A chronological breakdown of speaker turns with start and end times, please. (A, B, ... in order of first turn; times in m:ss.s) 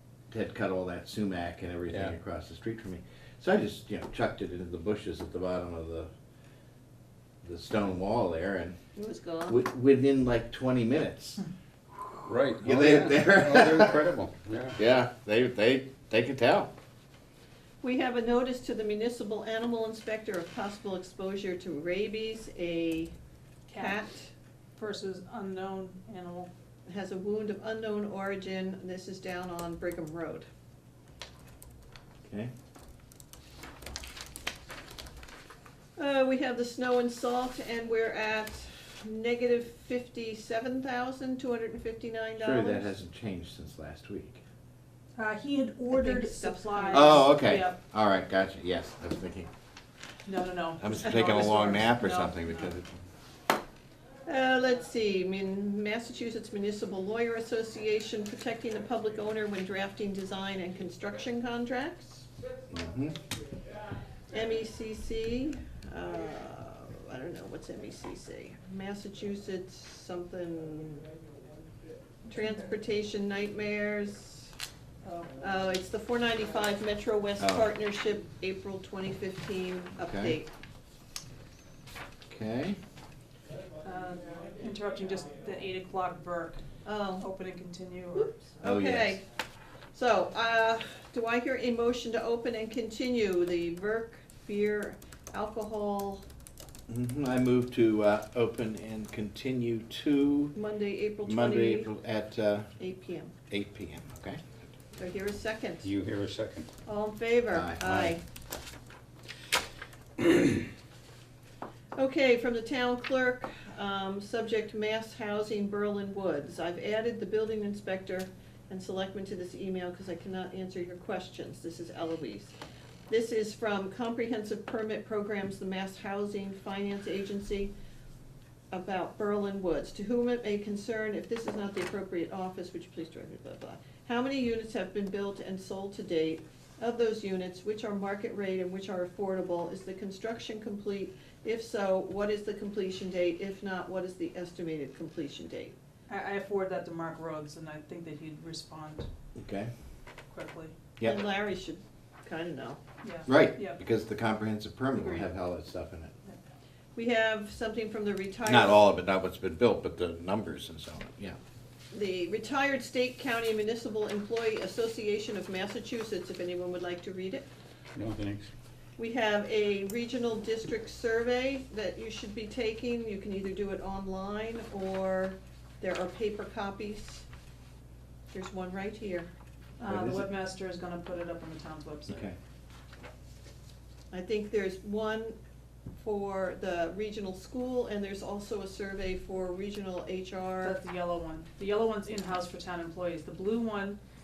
0:00.3-0:06.1 A
0:07.4-0:08.8 A
0:09.0-0:09.6 B
0:09.5-0:11.4 A
0:12.2-0:14.8 C
0:12.6-0:14.0 A
0:14.8-0:16.7 A
0:17.8-0:23.1 B
0:23.7-0:24.0 D
0:23.7-0:24.3 B
0:24.8-0:26.5 D
0:26.9-0:30.4 B
0:32.2-0:32.5 A
0:36.0-0:42.9 B
0:42.4-0:44.4 A
0:45.2-0:47.8 D
0:45.9-0:47.3 B
0:46.9-0:49.5 A
0:50.2-0:52.8 D
0:50.8-0:53.0 A
0:54.2-1:02.3 B
1:02.7-1:03.2 A
1:04.3-1:11.1 B
1:12.3-1:14.5 B
1:15.4-1:20.5 B
1:17.4-1:17.7 A
1:20.0-1:20.4 A
1:22.3-1:22.8 A
1:23.8-1:26.6 D
1:26.8-1:27.2 B
1:27.2-1:28.6 D
1:28.6-1:29.2 B
1:28.6-1:29.2 A
1:29.9-1:36.2 B
1:36.9-1:40.5 A
1:40.5-1:41.9 B
1:41.2-1:42.7 A
1:42.8-1:43.3 B
1:43.5-1:44.4 A
1:45.0-1:45.9 B
1:45.8-1:46.7 C
1:46.8-1:48.2 B
1:47.5-1:48.1 A
1:52.0-2:02.5 B
2:03.1-2:07.7 B
2:08.7-2:25.7 B
2:26.1-2:29.1 D
2:29.4-2:29.7 A
2:30.3-2:30.7 D
2:31.0-2:31.2 A
2:31.0-2:32.8 B
2:33.0-2:33.8 D
2:33.2-2:36.1 A
2:35.0-2:35.2 D
2:37.0-2:38.8 B
2:38.4-2:41.4 A
2:41.9-2:47.4 B
2:47.9-2:48.5 C
2:49.0-2:57.3 B
2:58.3-2:59.3 B
2:59.8-3:02.3 D
2:59.8-3:00.3 A
3:02.1-3:02.4 A
3:04.1-3:05.4 B
3:06.0-3:10.8 B
3:10.6-3:14.0 D